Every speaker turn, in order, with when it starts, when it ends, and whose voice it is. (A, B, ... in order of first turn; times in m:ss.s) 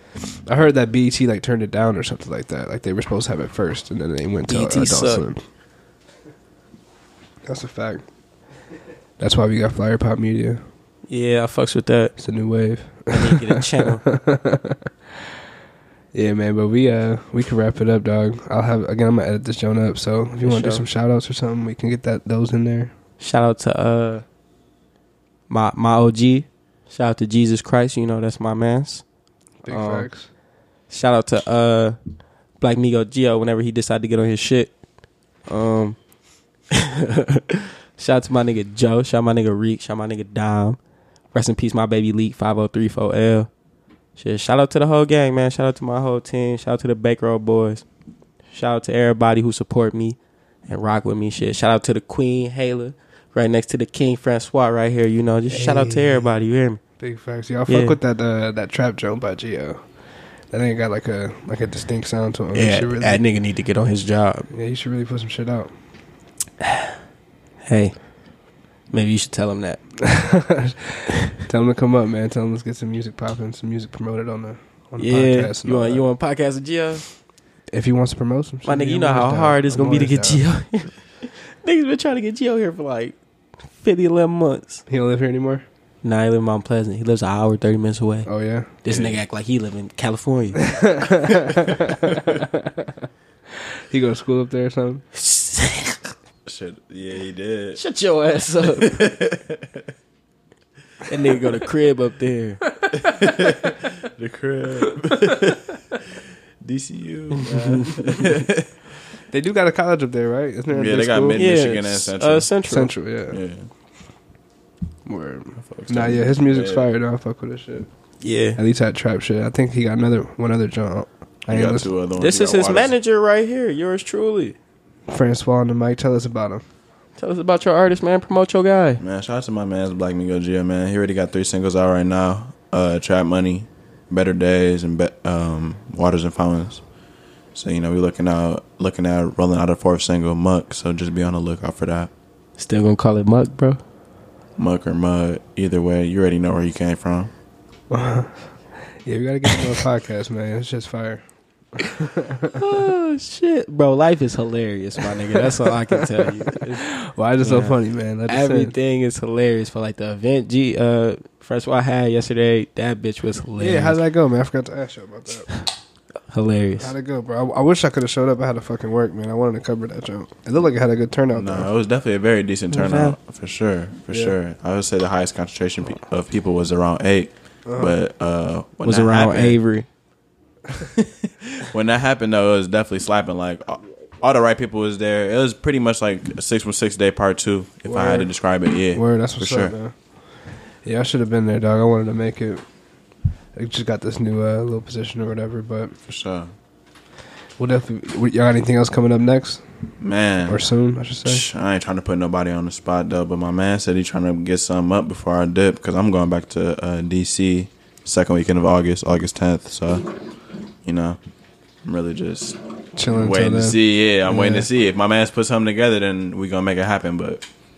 0:00.4-0:05.4 A
0:04.5-0:05.3 B
0:07.5-0:08.0 A
0:09.2-0:10.6 A
0:11.1-0:12.2 B
0:12.2-0:14.8 A
0:13.1-0:14.0 B
0:16.1-0:22.9 A
0:20.4-0:20.8 B
0:23.2-0:24.2 B
0:25.5-0:29.0 B
0:29.6-0:30.3 A
0:29.7-0:30.1 B
0:30.9-0:32.0 B
0:32.6-0:34.7 B
0:35.5-0:36.0 B
0:36.7-0:40.8 B
0:41.3-0:43.5 B
0:44.2-0:47.8 B
0:48.5-0:56.8 B
0:55.5-0:56.3 A
0:57.0-0:59.8 A
0:57.7-0:58.0 B
1:00.5-1:03.2 A
1:02.5-1:04.5 B
1:04.5-1:05.7 A
1:07.7-1:08.0 B
1:08.9-1:09.8 B
1:10.0-1:16.0 A
1:15.0-1:17.0 B
1:17.7-1:20.4 A
1:18.6-1:23.2 B
1:23.8-1:24.8 B
1:24.9-1:25.6 A
1:26.0-1:28.3 B
1:28.3-1:28.7 A
1:28.8-1:30.8 B
1:28.9-1:29.2 C
1:30.7-1:32.7 A
1:33.9-1:35.0 A
1:35.1-1:36.1 B
1:36.5-1:37.8 C
1:37.8-1:39.0 B
1:38.8-1:39.8 C
1:41.1-1:42.6 B
1:42.9-1:46.0 C
1:46.6-1:48.7 C
1:47.4-1:48.2 B
1:49.3-1:51.4 A
1:50.7-1:52.7 C
1:51.4-1:52.9 B
1:52.7-1:53.4 A
1:53.3-1:53.7 C
1:55.1-1:57.9 A
1:55.6-1:56.9 C
1:58.2-1:58.6 B
1:58.6-2:01.9 A
2:01.5-2:03.0 C
2:02.2-2:04.6 B
2:05.1-2:06.6 A
2:07.2-2:09.0 B
2:09.0-2:16.8 C
2:17.6-2:22.1 C
2:22.6-2:23.8 B
2:24.6-2:27.3 C
2:27.9-2:28.4 A
2:29.0-2:31.2 A
2:31.8-2:32.6 A
2:32.5-2:36.9 B
2:36.8-2:38.8 A
2:37.4-2:37.8 B
2:38.3-2:44.0 B
2:43.6-2:45.6 A
2:46.3-2:46.9 B
2:46.8-2:51.7 A
2:51.4-2:59.6 C
2:52.7-2:53.2 B
2:54.1-2:54.4 A
2:57.7-2:58.0 A
2:58.8-2:59.9 B
3:00.8-3:09.7 C
3:07.9-3:08.3 A
3:08.9-3:09.9 A
3:10.8-3:12.6 A
3:13.6-3:15.9 A
3:16.1-3:16.5 C
3:17.6-3:19.6 A
3:20.0-3:20.6 C
3:20.5-3:21.4 A
3:21.2-3:30.1 C
3:30.8-3:31.2 C
3:31.8-3:37.4 C
3:33.0-3:34.7 A